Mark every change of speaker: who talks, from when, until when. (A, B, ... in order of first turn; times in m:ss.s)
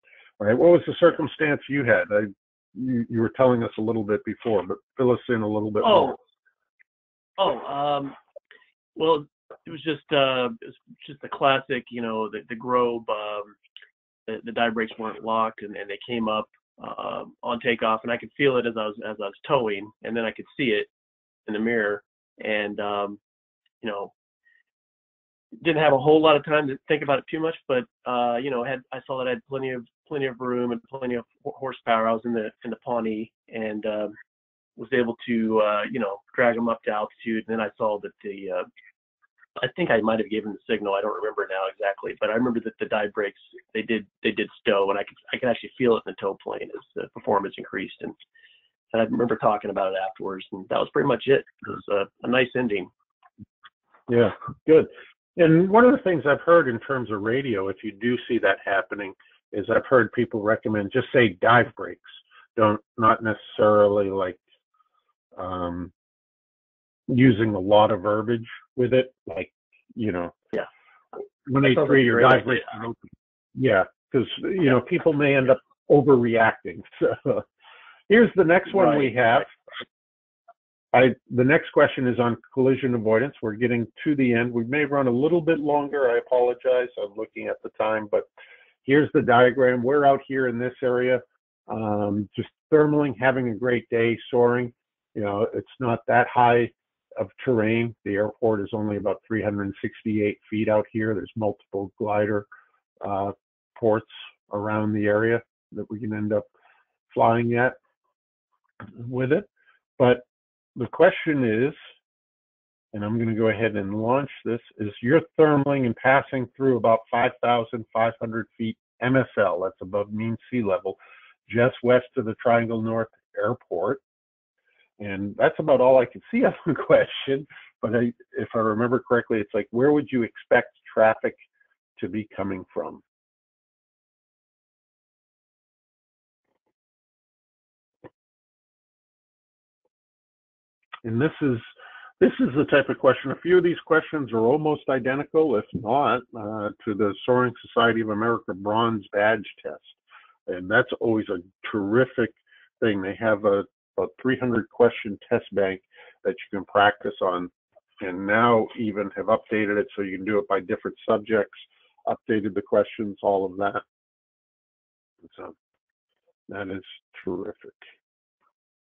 0:00.4-0:06.2 A
0:05.8-0:06.2 B
0:07.4-0:08.2 B
0:09.0-0:13.5 B
0:14.3-0:20.9 B
0:21.4-0:23.2 B
0:23.8-0:24.1 B
0:25.6-0:34.1 B
0:34.8-0:38.7 B
0:39.6-0:48.2 B
0:48.9-0:52.9 B
0:54.1-1:04.4 A
1:05.4-1:05.9 A
1:07.1-1:10.3 A
1:11.4-1:13.0 A
1:11.6-1:12.7 B
1:13.6-1:17.4 A
1:18.1-1:19.5 A
1:18.7-1:19.1 B
1:20.9-1:28.2 A
1:28.8-1:42.4 A
1:43.0-1:46.4 A
1:47.1-1:47.8 A
1:49.0-1:49.5 A
1:50.0-1:50.2 A
1:50.8-1:51.8 A
1:52.9-2:04.0 A
2:05.0-2:11.4 A
2:12.0-2:13.0 A
2:21.0-2:21.7 A
2:22.2-2:43.8 A
2:45.2-2:45.5 A
2:46.5-2:47.8 A